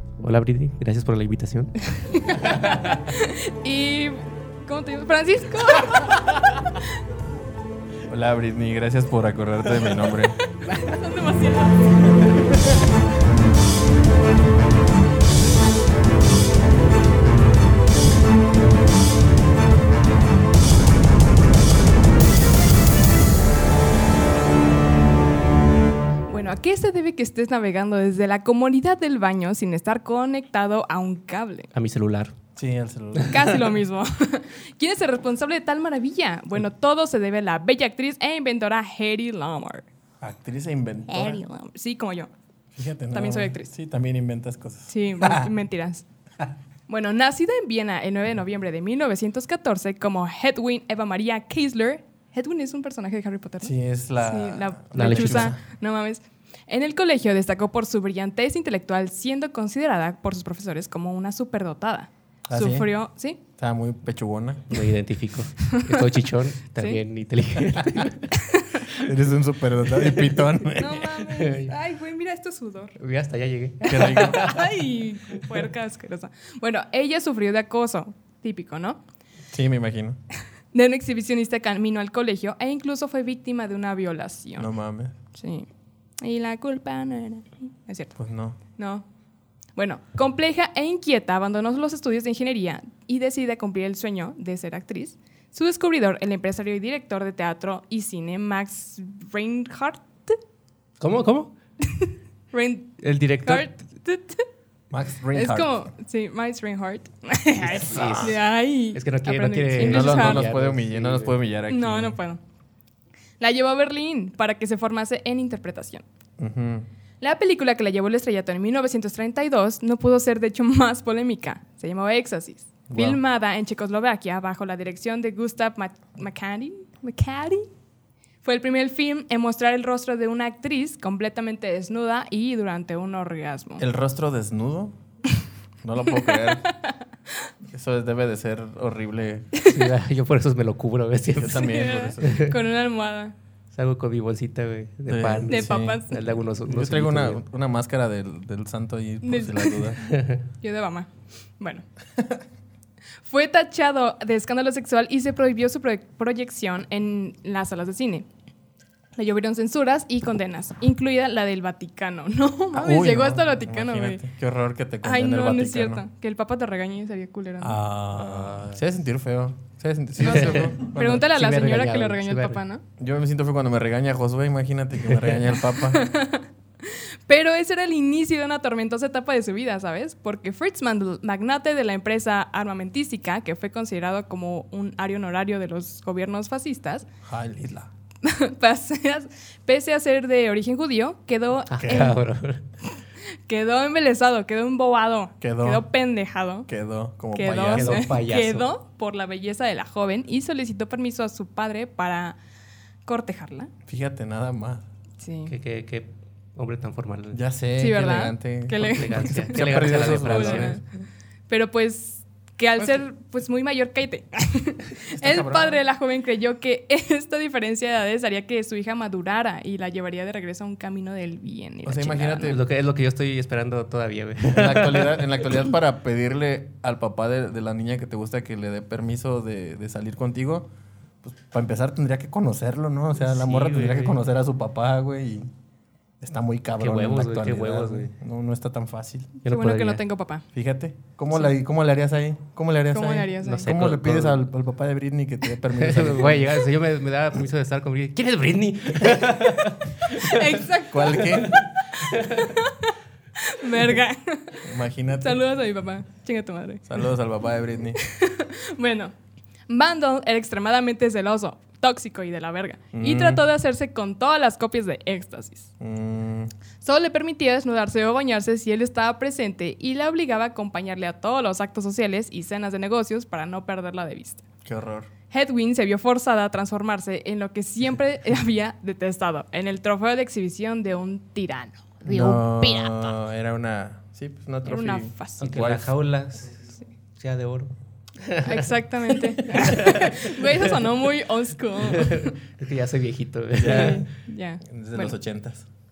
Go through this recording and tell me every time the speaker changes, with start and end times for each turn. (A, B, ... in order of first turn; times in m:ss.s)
0:00.2-0:01.8 A
0:01.8-0:06.9 B
0:02.5-0:02.9 A
0:08.1-0:10.4 C
0:09.8-0:10.1 A
0:10.8-0:12.1 B
0:26.3-0:31.7 B
0:31.7-0:32.3 A
0:32.6-0:33.6 C
0:33.3-0:39.8 B
0:40.2-0:41.4 C
0:41.1-0:42.3 B
0:42.7-0:45.5 C
0:43.1-0:43.7 B
0:44.9-0:46.0 B
0:46.9-1:03.4 B
0:53.6-0:55.6 C
0:54.9-0:55.5 A
1:02.5-1:02.9 C
1:03.6-1:04.9 C
1:04.7-1:08.3 A
1:05.6-1:06.0 B
1:08.3-1:08.8 B
1:08.9-1:11.3 C
1:10.0-1:10.4 A
1:10.8-1:13.0 B
1:11.2-1:11.8 A
1:13.0-1:15.6 A
1:13.8-1:19.0 B
1:13.9-1:14.5 C
1:19.5-1:20.2 C
1:20.7-1:24.7 B
1:24.6-1:25.1 C
1:25.3-1:25.7 B
1:26.2-1:28.2 B
1:28.2-1:28.6 C
1:28.7-1:29.0 B
1:29.8-1:40.4 B
1:41.0-1:41.5 A
1:41.8-1:44.4 B
1:43.0-1:43.7 A
1:44.9-1:45.9 C
1:45.3-1:50.5 B
1:47.6-1:48.4 A
1:47.6-1:48.4 C
1:48.9-1:51.3 A
1:49.8-1:52.2 C
1:51.7-1:52.4 B
1:53.4-1:56.0 B
1:56.4-1:56.9 C
1:57.2-2:07.7 B
2:02.9-2:03.2 C
2:08.4-2:13.8 B
2:13.8-2:15.0 C
2:15.8-2:16.7 C
2:16.2-2:16.9 B
2:17.7-2:19.5 C
2:19.6-2:22.6 A
2:21.3-2:22.4 C
2:21.6-2:23.3 B
2:23.7-2:27.4 A
2:25.1-2:26.0 C
2:25.5-2:26.2 B
2:26.6-2:30.0 C
2:29.2-2:29.9 B
2:30.0-2:30.4 A
2:30.6-2:31.8 B
2:33.2-2:38.2 B
2:39.1-2:44.2 B
2:42.7-2:46.0 C
2:45.0-2:47.8 B
2:47.6-2:51.3 C
2:48.1-2:48.8 A
2:50.2-2:52.8 B
2:50.3-2:52.6 A
2:53.0-2:56.1 C
2:55.8-3:07.0 B
3:07.2-3:07.9 C
3:08.2-3:12.2 B
3:11.7-3:12.6 A
3:11.8-3:12.1 C
3:13.5-3:16.7 B
3:15.4-3:15.8 C
3:16.7-3:18.2 C
3:17.3-3:22.4 B
3:17.7-3:18.7 A
3:23.0-3:23.7 B
3:23.8-3:24.9 C
3:25.2-3:25.5 B
3:25.4-3:27.4 A
3:27.3-3:30.8 C
3:27.8-3:30.8 B
3:28.8-3:30.8 A
3:31.5-3:42.6 B
3:35.1-3:35.8 C
3:41.8-3:42.6 C
3:42.4-3:45.6 A
3:44.5-3:50.7 C
3:51.2-3:55.5 C
3:53.2-3:54.2 A
3:56.2-3:59.3 C
3:56.8-3:58.1 A
3:59.4-4:00.0 A
3:59.4-4:00.4 B
4:00.5-4:06.6 C
4:02.9-4:03.7 B
4:03.4-4:04.4 A
4:05.7-4:10.6 A
4:10.1-4:14.7 B
4:10.8-4:11.6 C
4:11.2-4:12.5 A
4:14.6-4:15.4 C
4:15.2-4:17.0 B
4:16.9-4:18.0 C
4:18.0-4:19.1 B
4:19.7-4:25.7 B
4:22.9-4:23.4 C
4:25.8-4:26.5 C
4:26.8-4:34.4 B
4:34.6-4:35.1 C
4:35.3-4:43.1 B
4:42.0-4:45.9 C
4:44.6-4:45.5 B
4:45.4-4:46.6 A
4:47.2-4:47.7 A
4:48.2-4:50.9 A
4:48.4-4:52.4 B
4:51.8-4:54.0 A
4:53.6-4:55.7 C
4:53.7-4:55.1 B